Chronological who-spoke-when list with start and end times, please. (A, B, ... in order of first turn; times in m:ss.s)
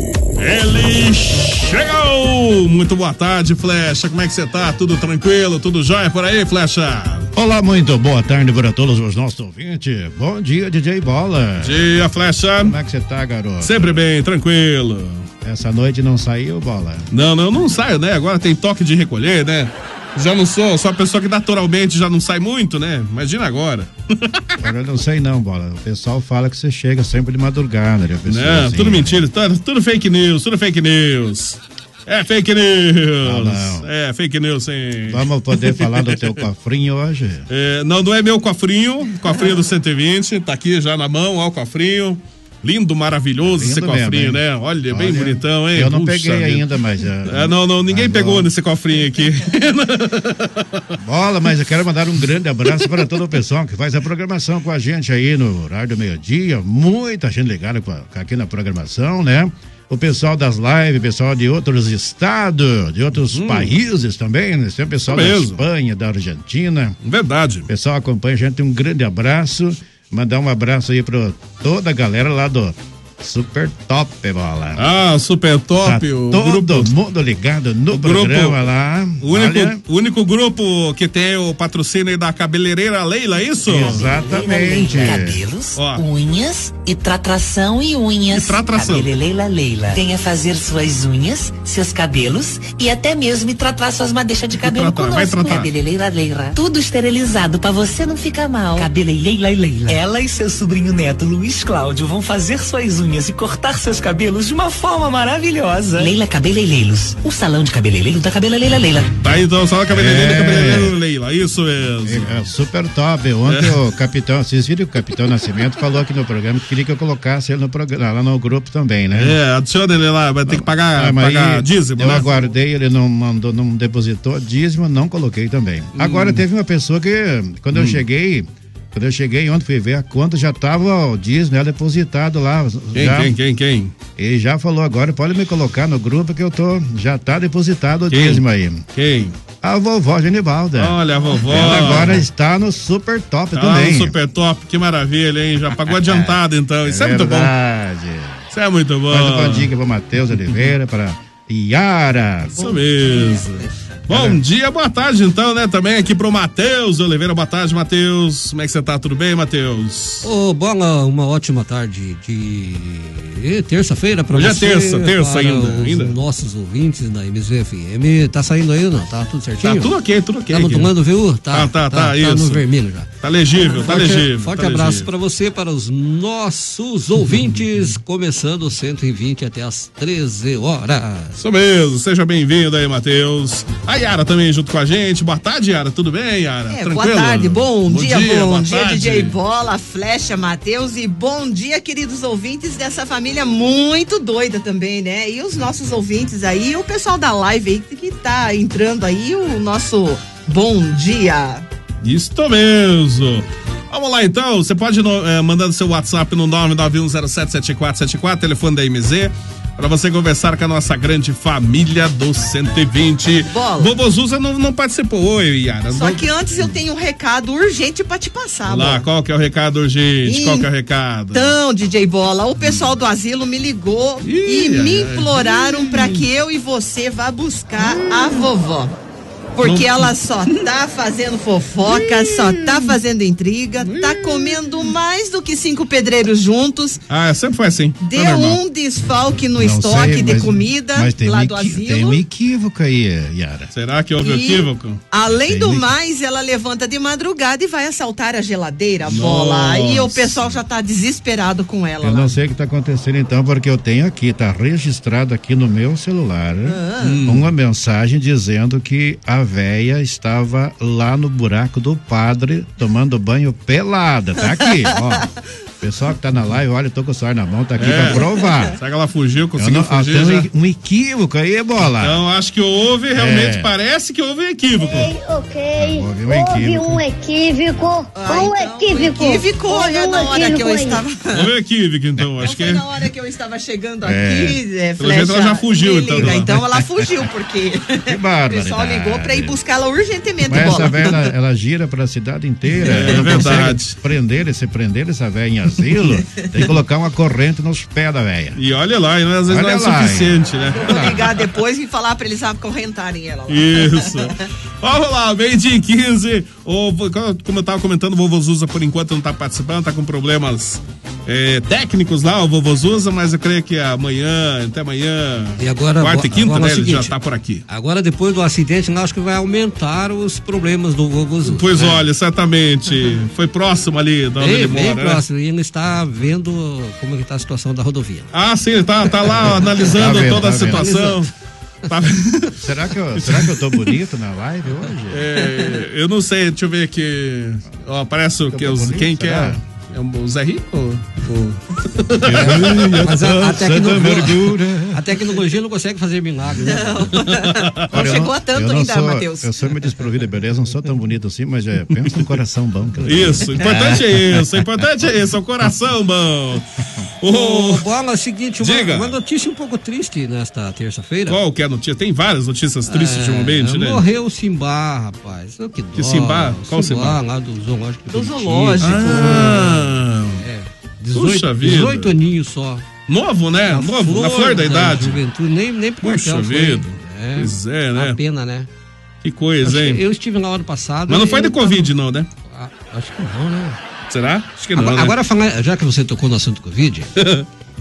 0:00.4-0:07.3 A
0:07.4-0:11.9 B
0:11.6-0:12.8 A
0:12.6-0:14.0 B
0:13.6-0:15.3 A
0:15.4-0:17.1 B
0:17.1-0:24.6 A
0:24.6-0:29.3 B
0:28.3-0:36.4 A
0:33.2-0:33.9 B
0:35.1-0:37.5 B
0:37.5-0:46.7 A
0:43.5-0:48.5 B
0:47.2-0:50.8 A
0:51.0-1:07.0 B
0:52.7-0:53.0 A
1:03.2-1:03.8 A
1:05.1-1:05.6 A
1:07.0-1:07.7 A
1:07.7-1:14.9 B
1:14.8-1:17.0 A
1:15.8-1:19.8 B
1:17.9-1:18.7 A
1:19.2-1:24.1 A
1:23.7-1:25.4 B
1:23.7-1:49.1 C
1:25.1-1:26.0 A
1:28.3-1:29.1 A
1:34.6-1:35.7 A
1:49.2-1:52.5 A
1:49.9-1:51.0 B
1:52.0-1:59.4 B
1:53.5-1:53.8 A
1:59.1-2:02.4 A
2:00.5-2:13.3 B
2:06.0-2:06.4 A
2:07.7-2:08.0 A
2:12.9-2:13.9 A
2:14.2-2:18.8 B
2:18.1-2:18.4 A
2:19.0-2:19.4 A
2:19.6-2:24.2 B
2:20.8-2:22.2 A
2:23.5-2:27.5 A
2:26.0-2:28.4 B
2:28.5-2:29.7 A
2:29.1-2:32.7 B
2:30.5-2:30.7 A
2:32.6-2:40.3 A
2:34.1-2:34.4 B
2:40.2-2:49.9 D
2:44.3-2:46.2 A
2:49.6-2:50.9 A
2:50.5-2:53.1 D
2:51.5-2:52.6 A
2:53.2-2:55.1 A
2:53.7-3:01.4 D
3:01.4-3:09.4 A
3:06.7-3:21.6 E
3:22.0-3:36.8 A
3:33.5-3:33.9 E
3:35.9-3:39.1 E
3:38.6-3:41.6 A
3:40.2-3:40.7 E
3:41.3-3:49.0 E
3:42.6-3:42.9 A
3:44.2-3:46.3 A
3:47.8-3:48.5 A
3:49.6-3:57.0 E
3:49.6-3:50.1 A
3:51.8-3:53.0 A
3:53.8-3:54.9 A
3:57.1-3:58.6 A
3:58.0-4:02.2 E
3:59.6-4:03.7 B
4:03.7-4:05.0 A
4:04.2-4:12.4 E
4:05.3-4:05.9 B
4:09.0-4:10.6 A
4:12.0-4:25.3 B
4:16.6-4:17.3 E
4:17.0-4:17.5 A
4:24.4-4:25.3 E
4:25.8-4:28.8 B
4:27.8-4:30.5 A
4:28.1-4:28.7 E
4:29.6-4:32.2 B
4:32.0-4:35.1 A
4:33.2-4:33.7 B
4:34.8-4:41.0 F
4:35.8-4:37.0 B
4:38.2-4:41.5 E
4:41.3-4:42.8 A
4:42.4-4:51.3 E
4:44.0-4:44.6 B
4:45.0-4:46.8 A
4:48.1-4:49.6 B
4:50.4-4:58.6 B
4:52.8-4:53.7 E
4:52.8-4:54.0 A
4:56.3-4:56.7 E
4:58.6-5:01.5 A
4:59.5-5:01.2 B
5:00.7-5:04.3 E
5:03.5-5:17.6 A
5:15.6-5:17.1 D
5:17.7-5:22.0 D
5:21.4-5:25.2 A
5:24.4-5:28.3 D
5:28.3-5:31.3 A
5:29.3-5:31.3 D
5:29.9-5:30.8 B
5:31.9-5:33.8 A
5:32.6-5:35.3 B
5:35.1-5:43.4 A
5:38.5-5:39.6 B
5:42.3-5:44.9 B
5:42.3-5:47.3 D
5:46.6-5:49.7 E
5:47.3-5:48.2 A
5:47.9-5:53.6 B
5:51.9-5:52.4 A
5:53.0-5:57.8 A
5:53.6-5:54.0 D
5:57.3-6:01.4 D
5:58.6-5:59.2 A
6:01.3-6:04.0 A
6:02.9-6:12.9 D
6:06.0-6:07.2 A
6:08.1-6:09.7 E
6:08.8-6:10.4 A
6:11.2-6:12.1 A
6:13.1-6:15.2 A
6:13.7-6:18.7 D
6:16.0-6:18.2 A
6:19.2-6:20.0 A
6:19.6-6:21.9 D
6:21.1-6:22.3 A
6:22.5-6:23.8 D
6:24.1-6:25.2 A
6:24.8-6:27.1 D
6:27.2-6:27.4 A